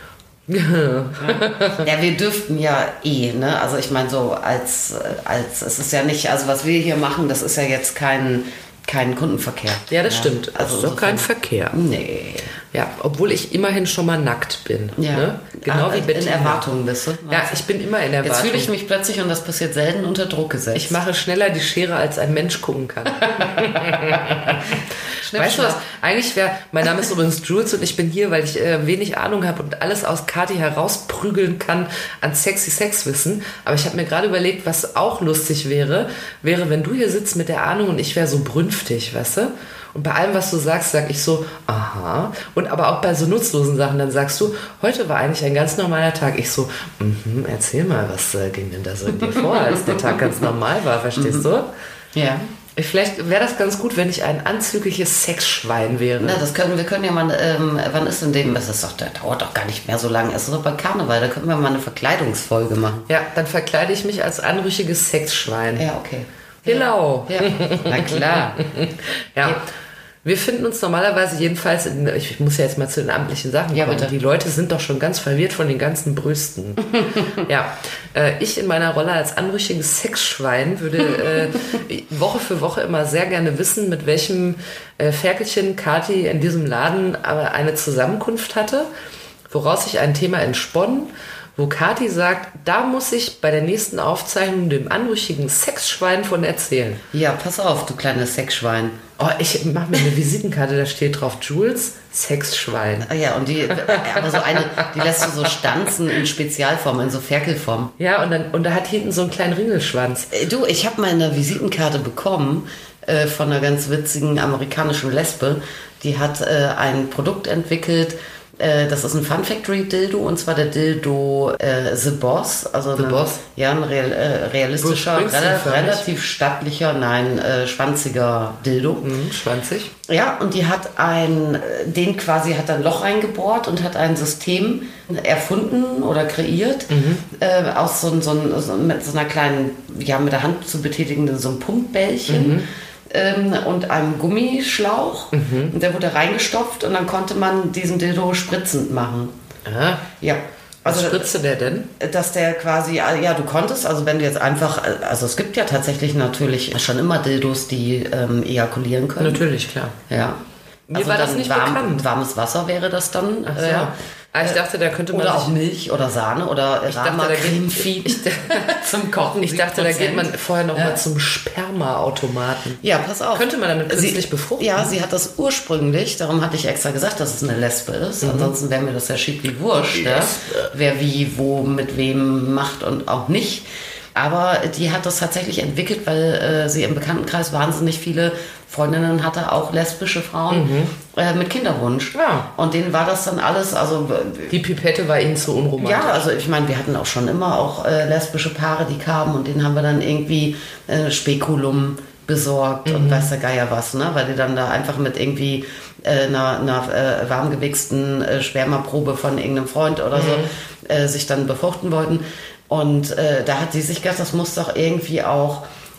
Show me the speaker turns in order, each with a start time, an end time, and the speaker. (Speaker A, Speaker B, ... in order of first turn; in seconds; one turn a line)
Speaker A: 0.5-1.9
Speaker B: 1.2-12.5
Speaker A: 9.9-11.8
Speaker A: 12.7-16.7
Speaker B: 14.9-17.6
Speaker A: 17.3-18.7
Speaker B: 18.2-21.0
Speaker A: 20.7-51.7
Speaker B: 23.4-25.8
Speaker B: 49.3-50.4
Speaker B: 51.1-51.5
Speaker B: 52.1-52.5
Speaker A: 52.8-56.4
Speaker B: 56.2-63.1
Speaker A: 63.1-65.8
Speaker B: 65.8-68.7
Speaker A: 66.6-69.6
Speaker A: 70.2-88.9
Speaker B: 73.7-74.1
Speaker A: 89.5-97.0
Speaker B: 97.1-99.0
Speaker A: 99.2-103.1
Speaker B: 103.0-107.9
Speaker A: 103.8-104.7
Speaker A: 108.0-110.3
Speaker B: 110.3-129.1
Speaker A: 122.9-123.4
Speaker A: 124.8-126.0
Speaker A: 129.0-129.9
Speaker B: 130.0-149.3
Speaker A: 136.9-137.2
Speaker A: 142.3-142.7
Speaker A: 145.3-145.7
Speaker A: 149.7-150.1
Speaker B: 150.2-151.3
Speaker A: 150.8-151.9
Speaker B: 152.0-159.4
Speaker A: 159.2-159.9
Speaker B: 160.1-160.4
Speaker A: 160.9-162.1
Speaker B: 160.9-164.6
Speaker A: 163.5-165.6
Speaker B: 165.1-171.0
Speaker A: 166.9-168.8
Speaker A: 169.4-172.8
Speaker B: 172.8-183.6
Speaker A: 173.3-174.9
Speaker A: 178.2-178.5
Speaker A: 179.9-180.6
Speaker B: 184.1-194.6
Speaker A: 190.5-190.9
Speaker A: 192.1-192.5
Speaker A: 194.5-196.2
Speaker B: 195.8-215.6
Speaker A: 202.8-203.3
Speaker A: 210.1-210.5